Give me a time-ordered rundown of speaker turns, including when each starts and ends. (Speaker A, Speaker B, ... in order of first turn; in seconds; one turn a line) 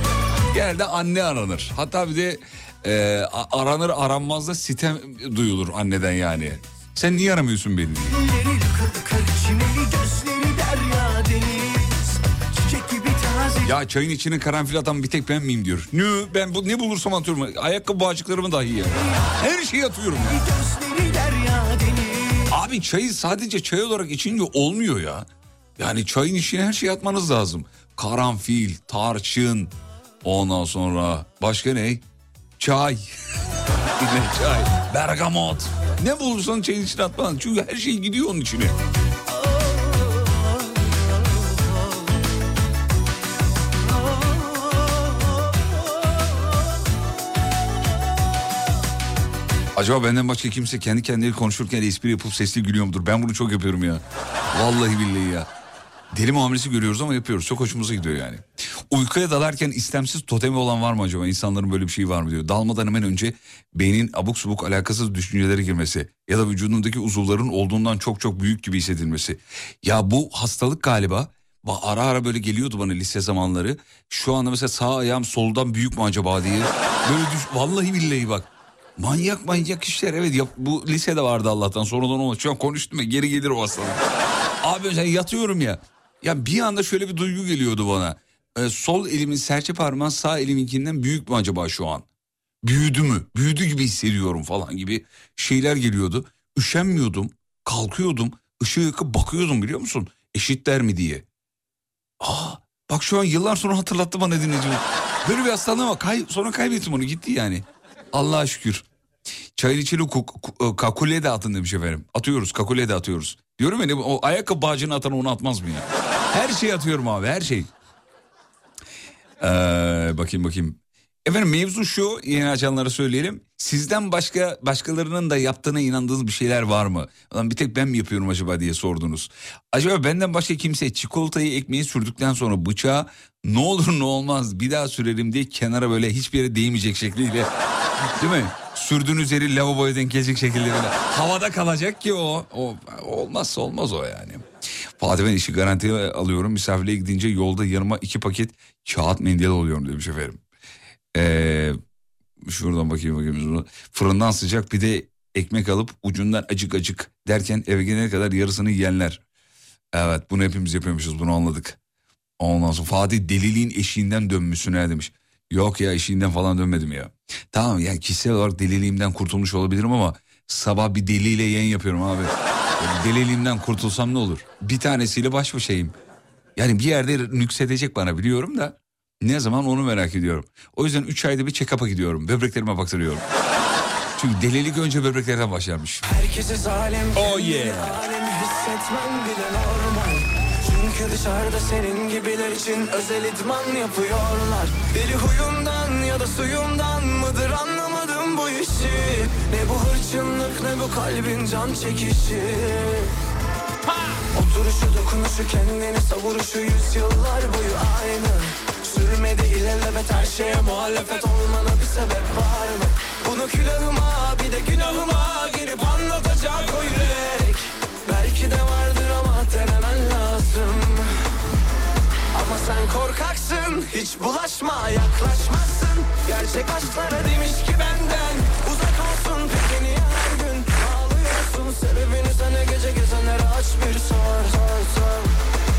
Speaker A: 0.5-8.2
Speaker B: 8.1-13.8
Speaker A: 13.6-20.4
Speaker B: 20.3-22.5
Speaker A: 22.5-25.3
Speaker A: 25.8-29.7
Speaker A: 30.2-32.0
Speaker A: 32.6-33.0
Speaker A: 34.0-38.8
Speaker B: 39.5-40.3
Speaker A: 49.8-55.5
Speaker A: 56.1-78.5
Speaker A: 79.0-84.0
Speaker A: 84.6-92.0
Speaker A: 92.6-101.2
Speaker A: 102.2-108.8
Speaker A: 109.6-117.7
Speaker A: 119.4-137.5
Speaker A: 138.2-144.4
Speaker A: 145.0-150.4
Speaker A: 151.1-151.8
Speaker A: 152.4-159.2
Speaker A: 159.9-161.8
Speaker A: 162.4-175.9
Speaker A: 176.6-183.2
Speaker A: 184.2-186.0
Speaker C: 186.0-203.1
Speaker A: 187.1-188.0
Speaker C: 204.3-221.2
Speaker C: 222.3-235.3